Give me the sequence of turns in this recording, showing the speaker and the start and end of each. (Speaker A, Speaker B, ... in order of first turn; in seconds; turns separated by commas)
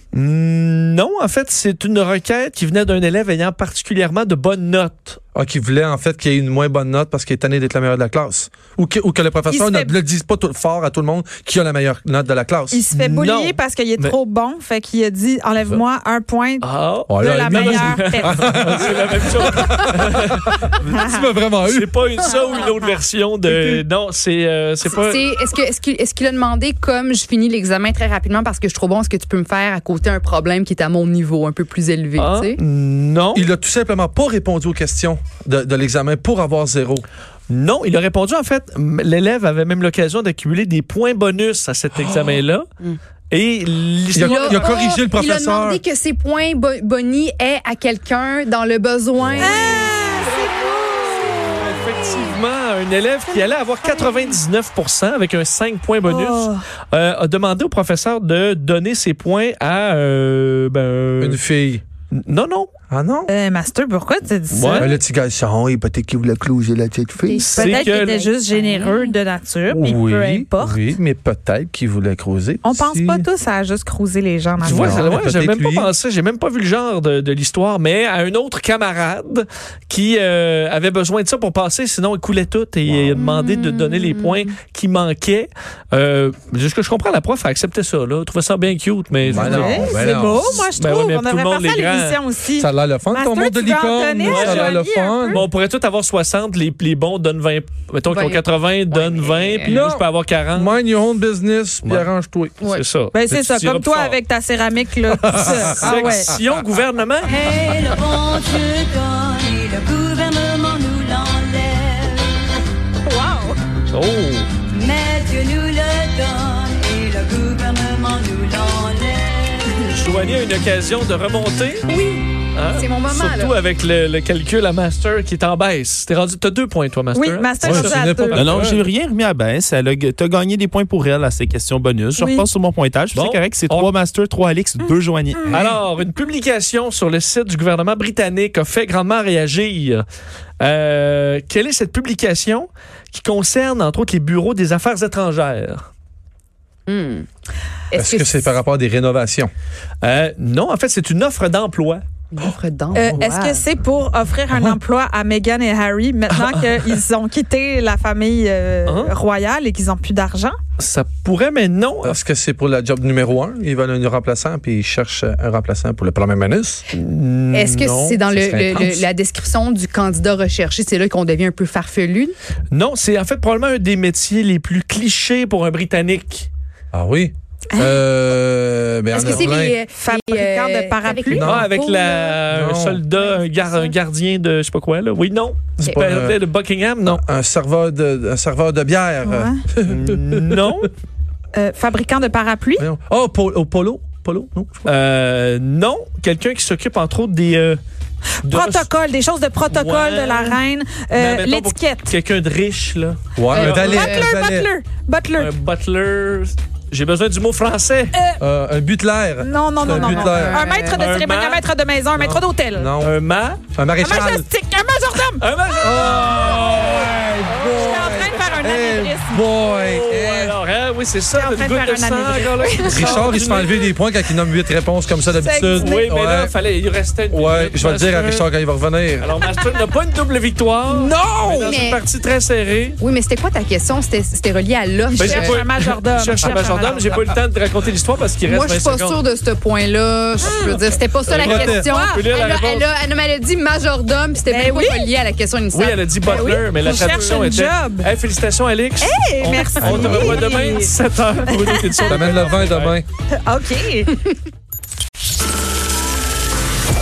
Speaker A: 0.1-5.2, Speaker B: 5.3-12.8, Speaker C: 9.5-9.9, Speaker C: 12.7-18.7, Speaker A: 12.9-14.2, Speaker A: 16.6-20.5, Speaker B: 17.1-22.0, Speaker C: 20.8-21.3, Speaker A: 21.6-25.3, Speaker C: 22.5-22.9, Speaker B: 23.5-23.8, Speaker D: 24.8-32.6, Speaker A: 32.1-33.5, Speaker B: 33.3-37.0, Speaker A: 37.5-42.6, Speaker A: 43.3-44.8, Speaker B: 44.1-45.8, Speaker D: 44.1-49.9, Speaker B: 49.2-49.5, Speaker C: 49.4-52.4, Speaker A: 51.4-61.4, Speaker C: 53.8-54.3, Speaker C: 56.0-56.6, Speaker B: 61.2-61.8, Speaker A: 62.1-62.7, Speaker B: 62.9-63.3, Speaker C: 63.3-64.9, Speaker A: 64.5-64.9, Speaker B: 64.8-67.5, Speaker D: 67.2-69.2, Speaker A: 67.4-68.2, Speaker C: 67.5-70.8, Speaker B: 69.7-73.2, Speaker C: 72.6-75.0, Speaker A: 74.6-92.2, Speaker B: 74.6-75.9, Speaker D: 83.3-84.3, Speaker B: 89.2-90.6, Speaker C: 89.3-95.4, Speaker B: 92.5-95.5, Speaker A: 94.2-94.8, Speaker A: 95.3-100.8, Speaker D: 98.1-99.8, Speaker B: 99.6-102.6, Speaker A: 101.8-102.1, Speaker D: 102.6-102.8, Speaker A: 102.7-104.2, Speaker C: 103.1-106.3, Speaker B: 105.2-106.4, Speaker A: 105.7-107.4, Speaker E: 107.2-112.3, Speaker C: 113.0-113.6, Speaker A: 113.9-114.5, Speaker E: 114.7-119.8, Speaker A: 119.8-121.9, Speaker D: 121.9-123.6, Speaker A: 122.5-128.8, Speaker C: 127.1-128.5, Speaker B: 127.6-128.5, Speaker F: 128.3-135.6, Speaker C: 132.2-132.4, Speaker A: 133.1-133.9, Speaker C: 135.4-135.6, Speaker A: 135.5-140.0, Speaker A: 140.6-145.8, Speaker D: 146.9-147.2, Speaker D: 147.9-148.6, Speaker B: 147.9-149.5, Speaker A: 150.0-152.0, Speaker D: 152.3-153.6, Speaker C: 152.9-160.6, Speaker A: 154.5-154.8, Speaker A: 156.3-157.0, Speaker A: 158.8-159.1, Speaker A: 160.8-162.2, Speaker B: 162.0-166.8, Speaker A: 166.9-169.1, Speaker D: 167.5-172.3, Speaker A: 172.7-176.5, Speaker B: 176.9-179.8, Speaker D: 179.1-182.4, Speaker C: 179.9-181.4, Speaker B: 181.3-181.7, Speaker A: 181.4-187.2, Speaker B: 182.5-183.0, Speaker D: 183.6-183.9, Speaker B: 185.8-186.4, Speaker B: 187.1-190.7, Speaker C: 189.2-189.6, Speaker A: 189.8-190.9, Speaker C: 191.5-192.8, Speaker B: 192.8-194.9, Speaker A: 194.8-197.8, Speaker A: 198.4-198.9, Speaker C: 198.4-202.1, Speaker A: 199.6-204.0, Speaker B: 203.3-204.7, Speaker D: 203.5-204.3, Speaker C: 203.6-205.5, Speaker A: 205.3-208.1, Speaker B: 208.4-210.7, Speaker C: 209.4-212.9, Speaker D: 209.8-211.0, Speaker A: 210.9-211.6, Speaker B: 212.2-213.2, Speaker A: 213.0-213.6, Speaker B: 213.7-214.4, Speaker C: 214.0-215.4, Speaker A: 215.4-218.8, Speaker B: 215.8-220.5, Speaker C: 217.7-219.5, Speaker A: 219.6-223.9, Speaker C: 221.3-223.3, Speaker B: 222.8-226.5, Speaker C: 225.3-226.1, Speaker A: 225.8-228.5, Speaker B: 227.3-229.3, Speaker A: 229.2-233.0, Speaker B: 230.9-231.7, Speaker D: 231.5-232.0, Speaker D: 233.0-235.6, Speaker C: 235.1-237.3, Speaker A: 235.1-239.2, Speaker D: 238.4-246.6, Speaker C: 240.4-240.7, Speaker A: 241.2-242.9, Speaker B: 241.3-241.6, Speaker C: 241.4-242.2, Speaker C: 244.4-245.1, Speaker A: 245.7-253.0, Speaker C: 246.2-248.1, Speaker C: 249.0-250.9, Speaker B: 249.8-250.4, Speaker C: 251.4-252.2, Speaker B: 252.1-253.0, Speaker C: 253.3-254.1